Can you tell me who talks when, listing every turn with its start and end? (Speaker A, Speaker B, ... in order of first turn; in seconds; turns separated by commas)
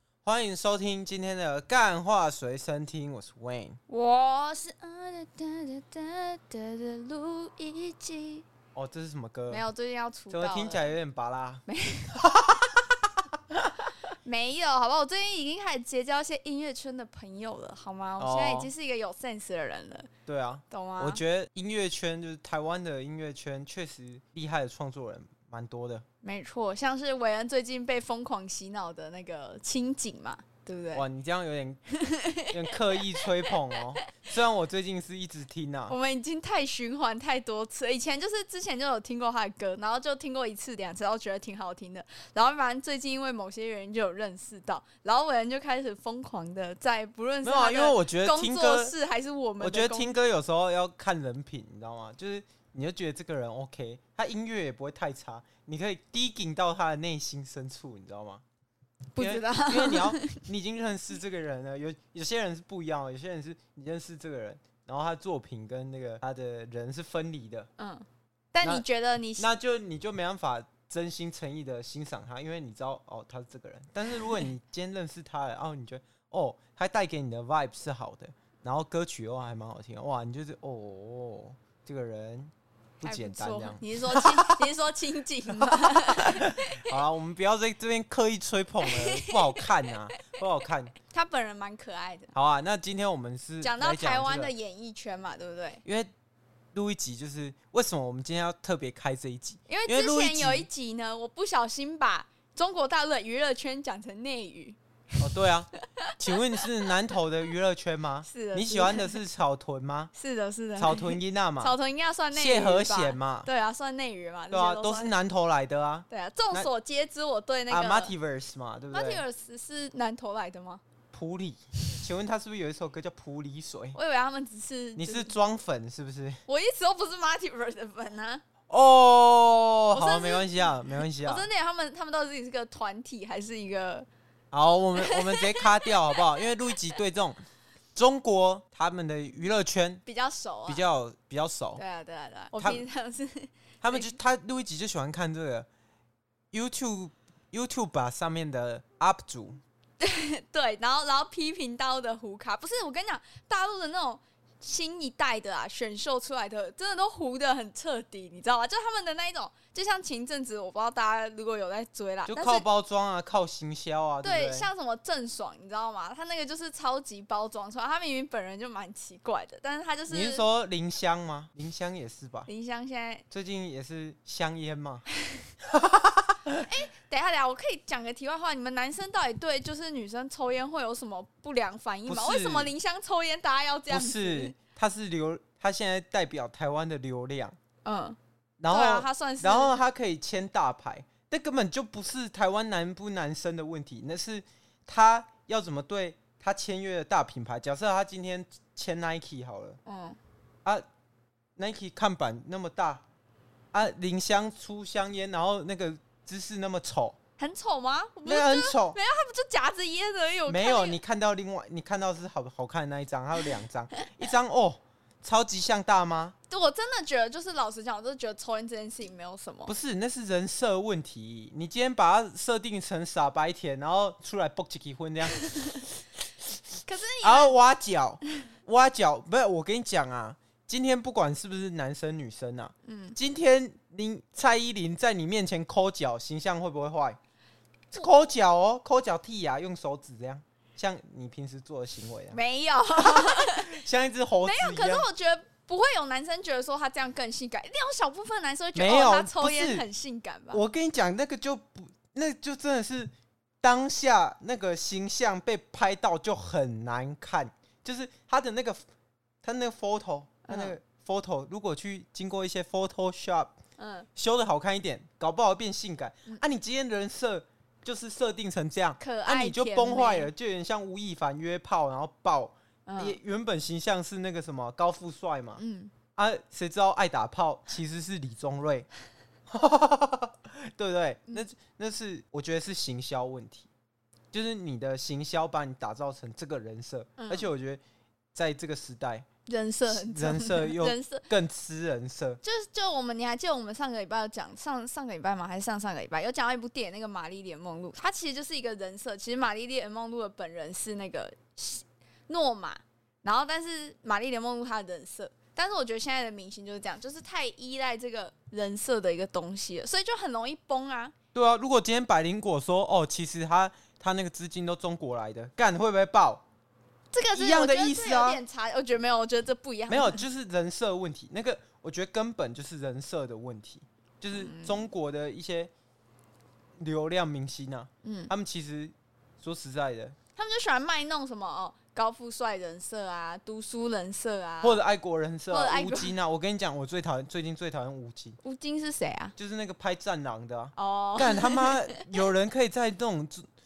Speaker A: 0.2-3.8, Speaker B: 3.9-8.5, Speaker A: 8.8-9.6, Speaker B: 9.5-10.9, Speaker A: 10.3-12.9, Speaker B: 11.7-12.1, Speaker B: 14.2-20.1, Speaker A: 18.2-18.7, Speaker A: 20.3-26.1, Speaker B: 20.7-21.2, Speaker B: 26.2-31.0, Speaker A: 30.9-31.8, Speaker B: 31.9-33.0, Speaker A: 32.5-36.0, Speaker B: 35.9-50.1, Speaker A: 47.4-48.9, Speaker A: 49.6-58.4, Speaker B: 59.1-60.3, Speaker A: 59.2-67.7, Speaker B: 67.8-69.5, Speaker A: 69.4-84.6, Speaker B: 83.0-87.0, Speaker A: 85.5-90.9, Speaker B: 88.8-89.9, Speaker B: 91.0-92.3, Speaker A: 92.3-94.5, Speaker B: 93.6-95.8, Speaker A: 95.8-96.1, Speaker A: 96.8-100.7, Speaker B: 99.7-104.8, Speaker A: 105.2-110.1, Speaker B: 105.8-106.6, Speaker B: 108.3-109.2, Speaker B: 110.1-115.1, Speaker A: 110.8-111.8, Speaker A: 112.3-113.5, Speaker A: 114.5-116.7, Speaker B: 116.1-118.1, Speaker A: 117.7-119.2, Speaker B: 118.9-120.8, Speaker A: 121.1-124.0, Speaker B: 123.9-125.3, Speaker A: 125.0-126.4, Speaker B: 126.5-128.4, Speaker A: 128.7-131.5, Speaker B: 129.9-130.7, Speaker B: 131.2-134.1, Speaker A: 134.5-137.4, Speaker B: 135.0-136.5, Speaker A: 137.9-140.0, Speaker B: 140.1-140.8, Speaker A: 140.7-141.8, Speaker B: 141.8-144.1, Speaker A: 142.6-142.8, Speaker A: 143.8-145.7, Speaker A: 146.5-149.6, Speaker B: 150.0-162.7, Speaker A: 162.3-164.7, Speaker B: 164.2-170.4, Speaker A: 170.1-172.5, Speaker B: 172.5-173.2, Speaker A: 173.3-175.1, Speaker A: 175.7-176.7, Speaker B: 176.6-184.6, Speaker A: 182.1-182.7, Speaker A: 183.9-187.6, Speaker B: 187.8-188.2, Speaker A: 188.6-199.8, Speaker B: 188.7-189.7, Speaker B: 199.9-200.2, Speaker A: 201.6-203.0, Speaker A: 203.7-207.2, Speaker B: 207.4-211.0, Speaker A: 208.2-209.0, Speaker A: 210.5-216.3, Speaker B: 216.5-219.7, Speaker A: 219.7-225.8, Speaker B: 226.8-227.5, Speaker A: 227.2-237.2, Speaker B: 232.8-233.2, Speaker A: 237.9-242.4, Speaker B: 242.3-243.8, Speaker A: 243.0-245.1, Speaker B: 244.4-250.6, Speaker A: 248.8-249.8, Speaker A: 250.5-258.8, Speaker A: 259.4-263.6, Speaker B: 260.5-260.8, Speaker B: 263.8-264.1, Speaker A: 264.1-275.6, Speaker B: 269.0-270.3, Speaker B: 272.9-273.2, Speaker B: 275.6-275.9, Speaker A: 276.2-278.9, Speaker A: 279.5-283.7, Speaker A: 284.3-287.8, Speaker B: 287.2-287.5, Speaker A: 288.3-289.3, Speaker B: 289.5-291.3, Speaker A: 289.9-292.4, Speaker B: 292.4-311.1, Speaker A: 311.3-316.4, Speaker B: 317.1-320.2, Speaker A: 317.3-318.4, Speaker A: 319.9-325.7, Speaker B: 324.3-324.9, Speaker A: 326.8-330.1, Speaker B: 328.0-328.3, Speaker B: 330.4-334.8, Speaker A: 334.6-338.4, Speaker B: 335.5-336.1, Speaker B: 338.4-339.3, Speaker A: 339.4-343.4, Speaker B: 340.8-341.8